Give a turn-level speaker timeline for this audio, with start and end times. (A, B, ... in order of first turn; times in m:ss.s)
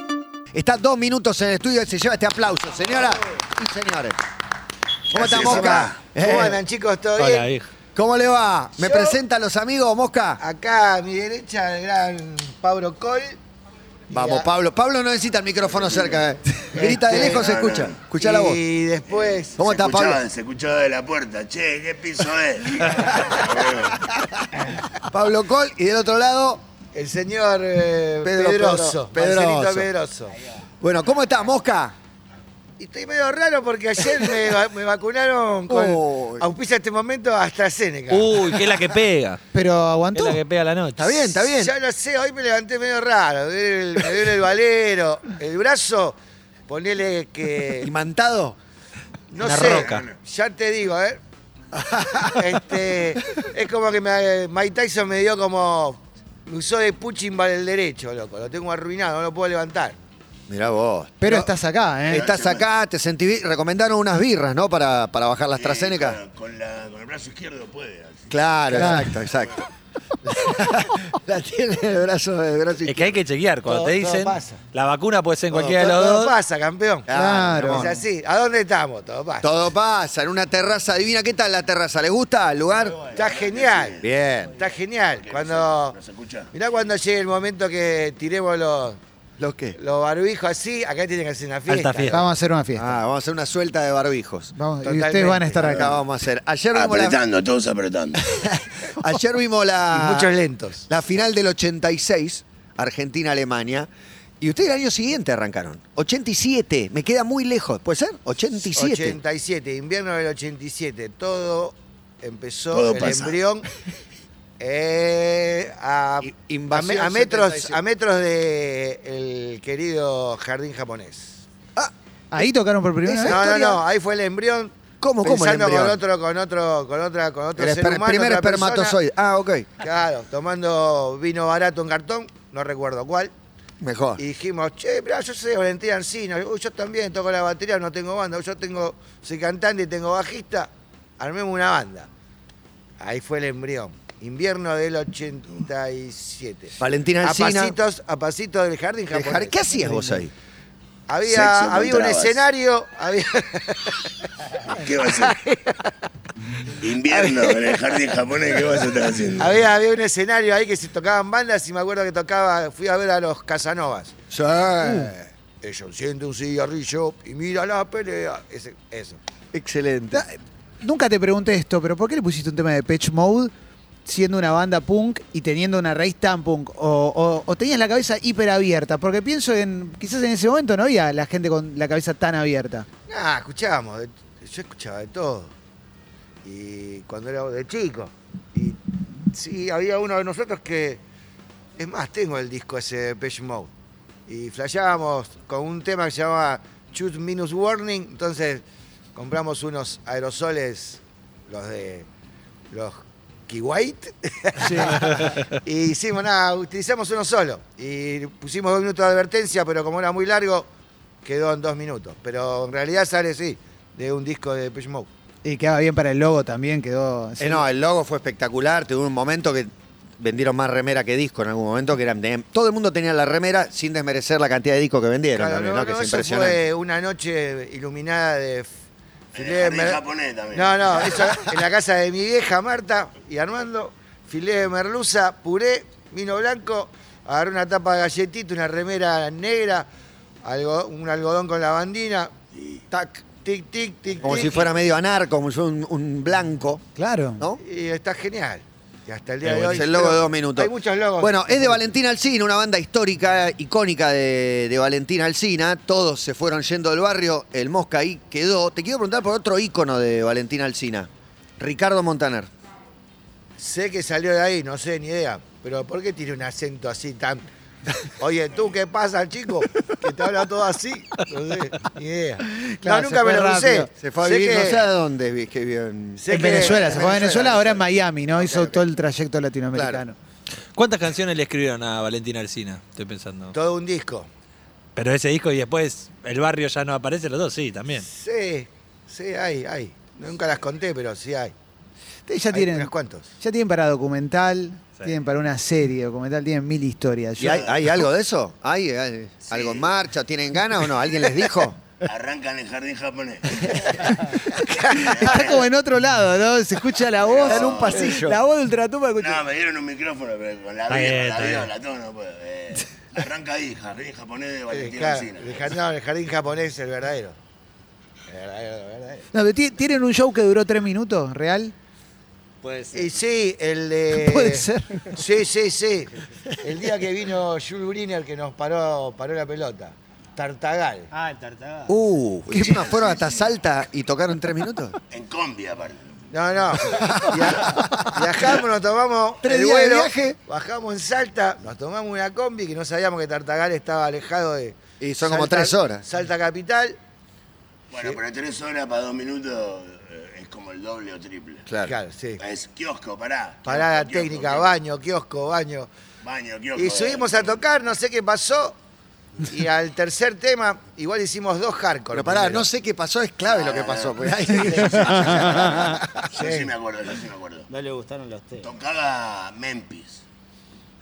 0:00.5-0:04.2 A
0:05.1-0:06.6 A
0:05.1-0:06.0 B
0:05.2-0:07.5 C
0:07.2-0:07.7 D
0:07.9-0:10.4 A
0:08.8-0:09.2 C
0:10.4-0:13.4 C
0:14.1-0:14.5 C
0:14.1-0:18.6 A
0:15.7-0:16.2 B
0:16.7-0:17.4 C
0:17.0-0:18.0 B
0:18.2-0:19.6 C
0:19.1-0:24.0 B
0:19.6-0:20.2 A
0:25.0-0:26.6 A
0:26.9-0:30.4 C
0:28.2-0:29.9 A
0:30.8-0:31.9 A
0:32.8-0:38.7 C
0:35.7-0:36.4 A
0:38.1-0:39.4 D
0:39.5-0:40.4 E
0:40.1-0:41.2 D
0:41.0-0:41.7 A
0:41.4-0:46.2 C
0:46.7-0:47.9 C
0:47.8-0:48.6 A
0:49.3-0:51.2 C
0:49.4-0:50.1 D
0:49.4-0:50.1 B
0:51.8-0:52.4 A
0:52.3-1:00.0 C
1:00.5-1:01.5 A
1:01.2-1:02.2 E
1:02.1-1:06.2 A
1:02.1-1:02.6 B
1:05.5-1:09.6 B
1:08.3-1:09.6 A
1:08.7-1:09.2 E
1:10.2-1:13.2 A
1:12.8-1:16.3 D
1:13.6-1:14.6 C
1:15.5-1:19.5 C
1:17.1-1:18.0 A
1:17.1-1:17.9 E
1:19.4-1:23.0 A
1:22.8-1:24.1 B
1:23.1-1:24.0 C
1:24.0-1:24.5 A
1:24.6-1:26.0 C
1:25.1-1:26.5 B
1:26.5-1:29.0 C
1:29.4-1:29.8 A
1:29.8-1:32.2 C
1:31.7-1:32.2 D
1:32.1-1:32.9 E
1:32.7-1:34.5 A
1:34.6-1:35.9 E
1:34.8-1:36.0 C
1:35.6-1:37.2 A
1:36.7-1:38.3 B
1:38.3-1:40.3 A
1:39.9-1:40.8 C
1:40.9-1:43.9 A
1:44.4-1:49.2 A
1:48.6-1:53.7 C
1:52.7-1:53.4 B
1:54.6-2:01.4 C
1:56.2-1:57.8 A
2:02.3-2:03.4 E
2:03.0-2:03.8 A
2:03.2-2:09.0 C
2:05.0-2:06.0 A
2:07.6-2:09.7 A
2:09.8-2:13.3 C
2:13.8-2:14.2 A
2:14.2-2:22.1 C
2:23.0-2:29.6 C
2:26.8-2:27.8 A
2:29.1-2:30.3 A
2:31.1-2:34.1 C
2:31.2-2:32.4 B
2:34.6-2:35.4 B
2:35.0-2:35.9 C
2:36.8-2:39.6 B
2:37.1-2:37.8 C
2:39.4-2:44.1 C
2:44.3-2:45.3 A
2:44.8-2:45.1 E
2:45.6-2:49.2 C
2:49.5-2:50.2 A
2:50.1-2:53.5 E
2:54.0-3:02.9 E
3:03.1-3:05.5 C
3:06.4-3:11.0 C
3:11.8-3:13.7 C
3:14.3-3:18.6 C
3:19.1-3:22.1 C
3:22.7-3:30.7 C
3:24.6-3:25.1 E
3:25.0-3:25.5 D
3:31.2-3:35.1 C
3:35.4-3:37.6 E
3:37.4-3:46.6 A
3:45.3-3:48.7 C
3:49.3-3:50.0 C
3:49.3-3:51.3 B
3:50.5-3:59.9 C
4:00.4-4:02.3 C
4:02.5-4:02.8 B
4:02.9-4:03.2 A
4:03.2-4:04.7 C
4:04.2-4:06.8 A
4:04.3-4:04.6 B
4:07.0-4:07.4 E
4:07.6-4:11.9 C
4:09.4-4:22.5 A
4:23.6-4:27.5 C
4:28.0-4:34.8 C
4:32.4-4:33.9 E
4:34.0-4:36.9 A
4:36.2-4:38.8 C
4:36.3-4:40.2 E
4:39.7-4:40.0 A
4:40.7-4:43.5 D
4:43.5-4:44.3 C
4:45.0-4:48.1 D
4:48.0-4:51.5 C
4:52.3-4:57.8 E
4:52.5-4:53.3 C
4:57.4-5:01.8 A
4:59.5-4:59.9 B
5:02.0-5:04.2 B
5:04.5-5:05.1 C
5:04.9-5:05.6 B
5:04.9-5:09.4 E
5:07.2-5:08.1 B
5:07.4-5:08.4 A
5:09.2-5:15.7 B
5:10.9-5:11.7 D
5:14.7-5:17.4 C
5:18.3-5:19.2 C
5:19.3-5:21.7 E
5:22.6-5:23.1 F
5:22.9-5:31.1 C
5:24.1-5:25.1 E
5:31.1-5:32.0 F
5:31.9-5:35.0 A
5:32.5-5:33.5 B
5:35.1-5:36.3 B
5:36.3-5:47.0 C
5:36.8-5:38.3 A
5:39.4-5:40.4 A
5:45.0-5:46.0 A
5:47.9-5:51.6 B
5:51.7-5:51.9 A
5:51.8-5:52.4 C
5:52.4-5:54.7 B
5:53.6-5:55.9 C
5:56.2-5:57.6 B
5:56.8-5:58.8 C
5:59.5-6:02.6 C
6:02.1-6:06.1 A
6:03.4-6:07.7 B
6:04.7-6:05.1 C
6:06.3-6:06.7 C
6:07.7-6:08.7 F
6:08.6-6:10.2 B